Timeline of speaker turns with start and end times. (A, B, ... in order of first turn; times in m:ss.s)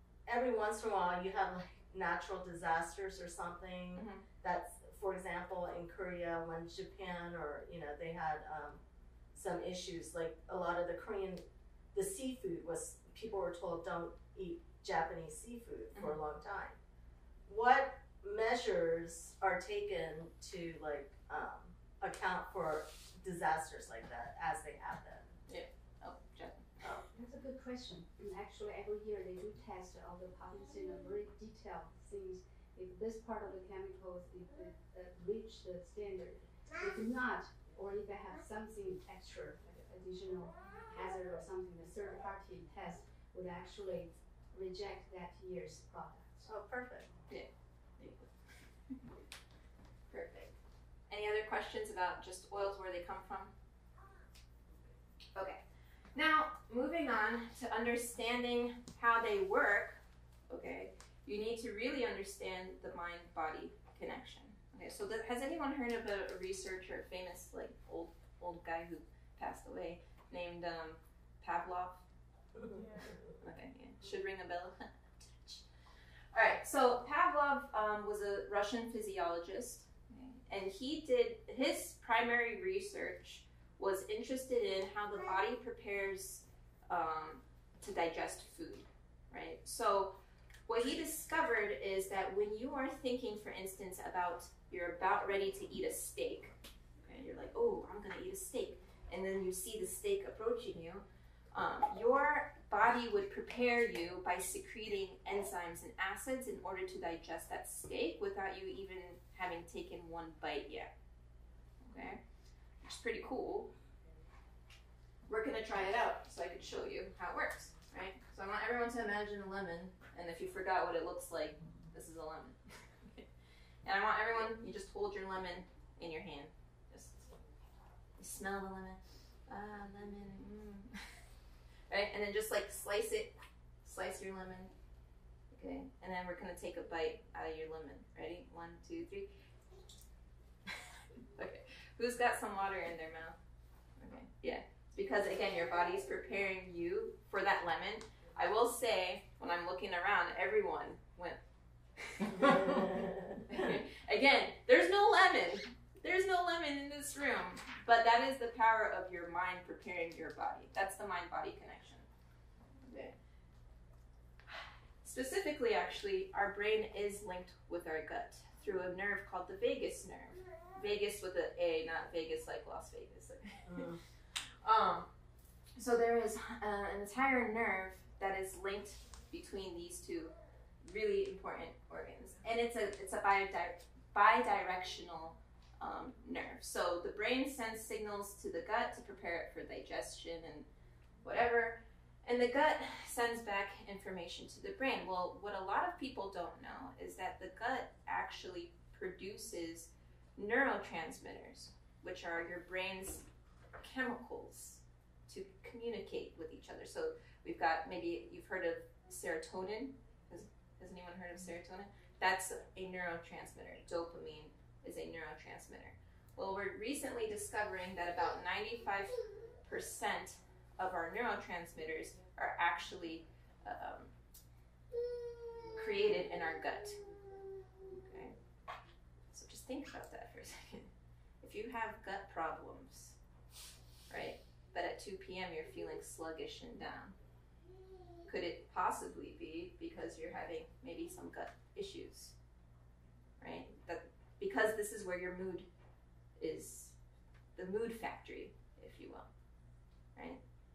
0:00.2-0:08.8 A
0:03.9-0:04.2 B
0:09.3-0:16.8 A
0:17.4-0:25.3 A
0:25.5-0:26.9 B
0:26.8-0:27.1 A
0:27.1-0:46.5 C
0:46.4-0:47.1 A
0:47.3-0:49.0 B
0:50.1-0:50.5 B
0:51.1-0:53.5 B
0:55.3-0:55.6 B
0:56.1-1:12.0 B
1:13.4-1:15.6 B
1:16.3-1:30.2 B
1:30.7-1:50.9 B
1:51.8-1:52.2 B
1:52.8-1:53.7 B
1:55.3-2:03.2 B
2:03.8-2:07.3 B
2:08.2-2:11.0 B
2:11.9-2:14.7 B
2:15.5-2:19.3 B
2:21.4-2:23.4 B
2:24.0-2:31.4 B
2:32.0-2:32.8 B
2:33.4-2:42.1 B
2:42.8-2:43.1 B
2:45.0-2:55.1 B
2:53.6-2:54.0 A
2:55.8-3:10.7 B
3:11.2-3:23.2 B
3:23.8-3:44.1 B
3:45.7-3:47.0 B
3:47.9-3:48.4 B
3:49.3-3:53.2 B
3:54.1-3:57.2 B
3:58.2-4:02.3 B
4:03.4-4:05.7 B
4:06.4-4:06.9 B
4:07.6-4:09.3 B
4:10.2-4:10.4 B